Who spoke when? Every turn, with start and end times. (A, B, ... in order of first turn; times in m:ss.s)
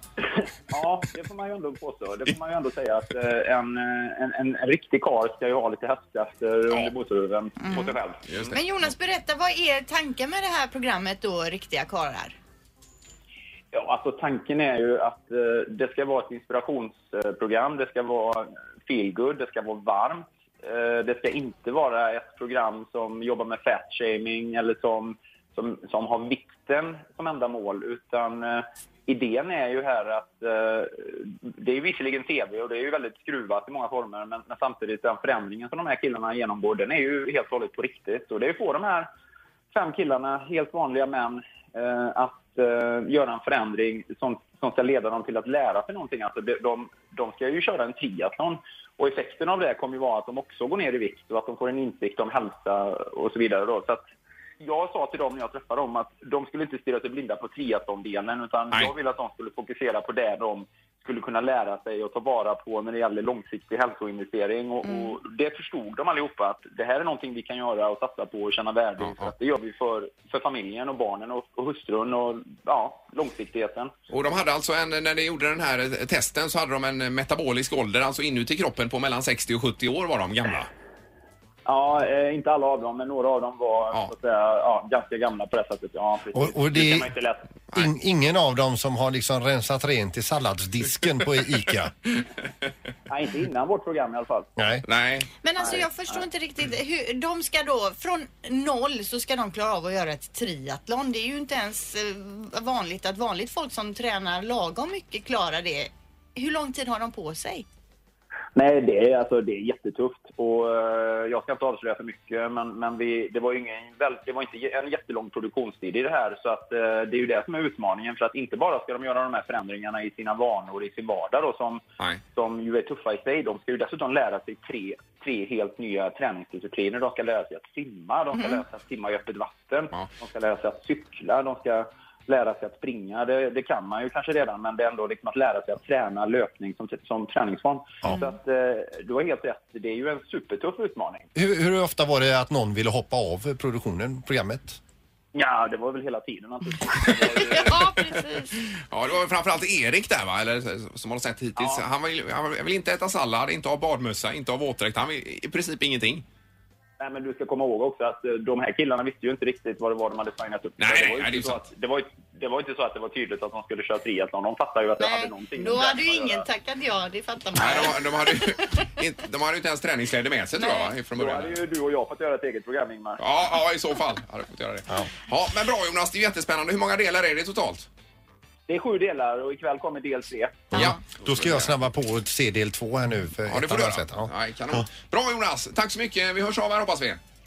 0:00.7-0:08.2 A
0:07.6-0:12.4 B
0:08.3-0:08.6 C
0:13.7-0:39.1 A
0:39.7-0:54.0 A
0:54.6-1:13.9 A
1:04.8-1:05.1 B
1:09.0-1:09.3 C
1:14.1-1:20.7 C
1:21.6-1:27.4 A
1:26.3-1:27.1 D
1:27.7-1:31.9 D
1:33.1-1:34.5 A
1:34.6-1:34.8 D
1:34.8-1:35.3 C
1:35.4-1:47.6 B
1:48.5-2:01.8 A
2:02.3-2:21.3 A
2:21.3-2:24.8 D
2:25.3-2:27.9 A
2:27.4-2:28.6 B
2:28.9-2:36.2 C
2:31.6-2:31.8 A
2:37.0-2:46.4 A
2:40.8-2:41.6 C
2:45.0-2:48.7 B
2:47.6-2:51.6 C
2:50.6-2:50.9 B
2:51.1-2:53.2 A
2:53.2-2:57.9 C
2:58.7-3:00.6 A
3:00.7-3:01.0 B
3:00.7-3:04.8 D
3:00.7-3:01.8 C
3:03.5-3:07.2 C